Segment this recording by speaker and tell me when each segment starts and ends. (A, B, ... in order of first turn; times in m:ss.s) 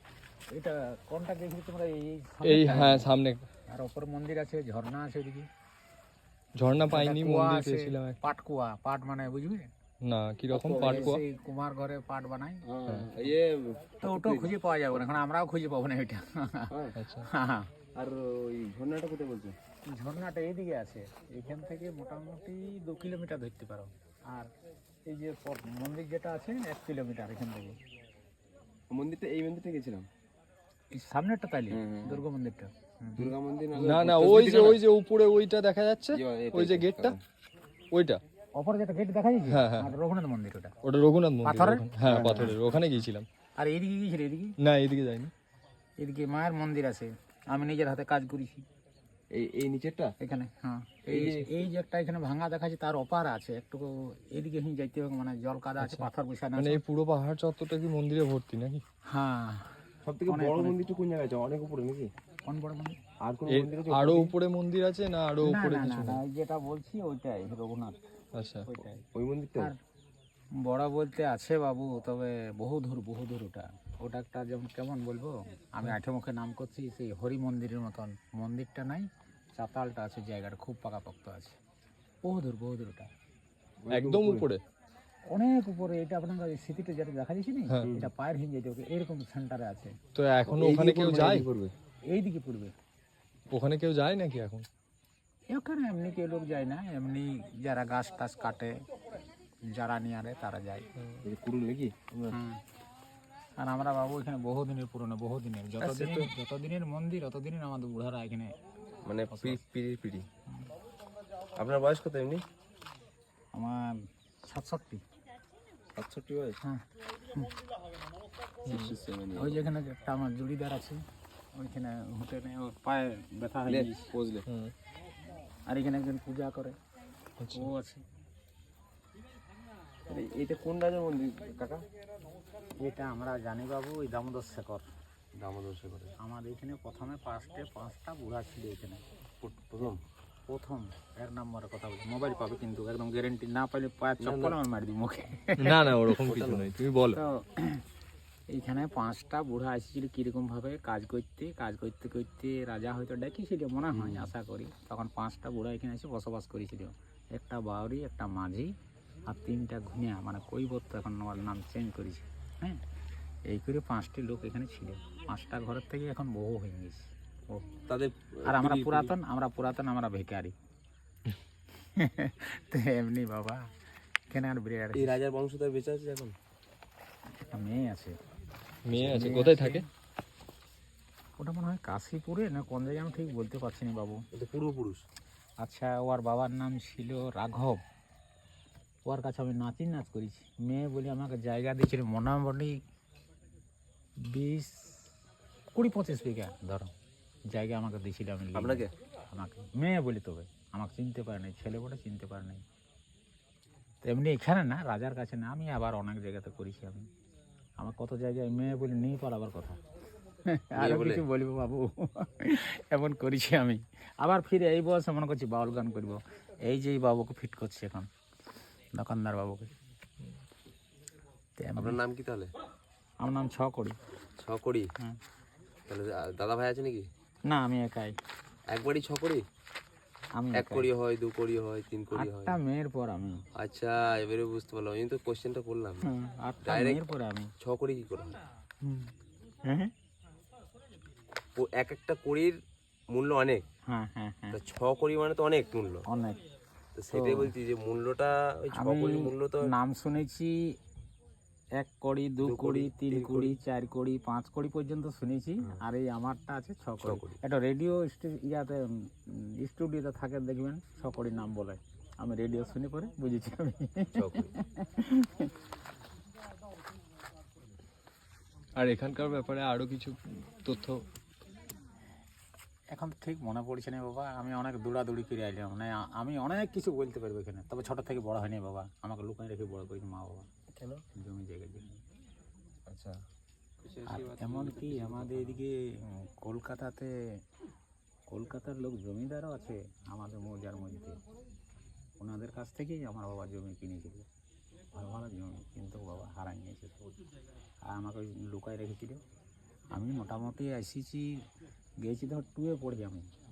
0:00.5-0:03.1 A
0:02.4-0:03.4 B
0:03.7-0:05.5 A
0:06.6-0:08.2 B
0:06.9-0:09.7 A
0:10.0-0:11.2 B
0:10.5-0:11.2 C
0:10.7-0:12.6 A
0:12.6-0:14.5 C
0:14.0-0:16.7 A
0:16.7-0:17.0 C
0:17.0-0:17.3 B
0:17.2-0:17.7 A
0:17.9-0:19.5 C
0:19.9-0:24.5 A
0:25.0-0:27.8 A
0:28.9-0:30.1 C
0:30.9-0:33.3 A
0:31.7-0:32.2 C
0:33.2-0:34.8 C
0:33.7-0:37.2 B
0:36.1-0:37.2 C
0:37.9-0:38.2 B
0:38.5-0:40.8 A
0:39.5-0:39.9 B
0:40.8-0:43.3 B
0:41.4-0:42.6 A
0:42.0-0:42.6 C
0:43.6-0:44.6 A
0:44.6-0:45.3 B
0:46.0-0:48.6 A
0:49.3-0:50.1 C
0:50.2-0:56.8 A
0:51.1-0:51.6 C
0:55.8-0:58.8 B
0:59.1-0:59.7 A
1:00.0-1:02.1 C
1:00.2-1:00.8 A
1:02.4-1:03.0 A
1:03.2-1:04.3 C
1:03.5-1:06.2 B
1:05.4-1:08.0 A
1:08.3-1:08.6 B
1:08.6-1:09.0 A
1:09.1-1:09.7 C
1:10.6-1:21.6 A
1:22.2-1:23.1 A
1:23.8-1:24.5 C
1:23.9-1:24.6 B
1:25.3-1:30.0 A
1:27.8-1:28.1 C
1:30.1-1:31.4 B
1:30.4-1:31.7 C
1:32.1-1:32.7 A
1:33.5-1:34.6 B
1:35.5-1:38.8 A
1:39.6-1:40.8 A
1:41.2-1:42.4 C
1:42.3-1:42.6 A
1:43.6-1:48.5 A
1:45.8-1:46.3 C
1:49.0-1:50.3 C
1:49.3-1:49.6 A
1:51.6-1:52.4 C
1:53.5-1:55.0 A
1:56.0-1:56.6 C
1:56.6-1:57.5 A
1:58.6-1:59.6 C
1:58.6-1:58.9 B
1:59.3-2:01.0 A
2:01.5-2:04.1 A
2:03.7-2:04.4 C
2:04.5-2:04.7 B
2:05.6-2:06.8 A
2:07.4-2:07.7 B
2:07.5-2:08.0 A
2:10.1-2:11.8 C
2:12.8-2:14.8 A
2:15.3-2:16.1 C
2:16.2-2:19.0 A
2:19.4-2:20.0 C
2:20.5-2:25.9 A
2:24.2-2:24.6 C
2:25.6-2:27.2 B
2:26.2-2:26.7 C
2:27.1-2:27.8 A
2:28.5-2:38.7 A
2:33.9-2:34.3 C
2:39.2-2:42.8 A
2:43.5-2:47.7 A
2:47.9-2:49.1 C
2:48.4-2:50.5 A
2:52.0-2:53.7 A
2:54.3-2:55.2 A
2:54.9-2:56.3 C
2:57.4-2:58.2 A
2:58.8-2:59.8 B
2:58.9-2:59.8 A
3:01.4-3:04.2 A
3:04.3-3:05.0 C
3:05.6-3:07.8 A
3:09.0-3:12.8 A
3:14.2-3:15.1 A
3:15.7-3:16.9 A
3:17.5-3:22.6 A
3:18.5-3:18.9 C
3:24.0-3:27.1 A
3:27.8-3:29.8 A
3:30.4-3:38.1 A
3:30.8-3:31.2 C
3:38.9-3:39.7 A
3:41.6-3:42.0 A
3:41.7-3:42.5 C
3:43.2-3:44.0 A
3:44.4-3:44.9 C
3:45.9-3:47.1 C
3:47.4-3:48.1 A
3:48.7-3:49.4 C
3:50.4-3:50.9 A
3:50.5-3:52.6 C
3:52.1-3:53.4 A
3:53.5-3:56.0 C
3:56.0-3:57.5 A
3:56.6-3:57.0 C
3:57.6-3:58.4 C
3:58.8-3:59.1 A
3:59.6-3:59.9 A
4:01.6-4:02.6 C
4:03.1-4:03.6 C
4:03.8-4:04.6 A
4:04.5-4:06.0 C
4:06.1-4:06.4 A
4:06.9-4:09.7 C
4:07.1-4:07.5 A
4:08.7-4:10.8 A
4:11.8-4:25.5 A
4:12.4-4:13.5 C
4:17.0-4:17.4 C
4:24.1-4:24.5 C
4:28.8-4:31.0 B
4:32.9-4:40.5 A
4:40.7-4:41.0 C
4:41.1-4:42.0 A
4:42.9-4:43.2 C
4:43.8-4:45.6 C
4:44.1-4:47.4 A
4:48.3-4:51.2 A
4:52.2-4:54.2 A
4:54.9-4:57.0 A
4:57.8-4:59.2 A
4:59.9-5:01.4 A
5:02.0-5:03.3 A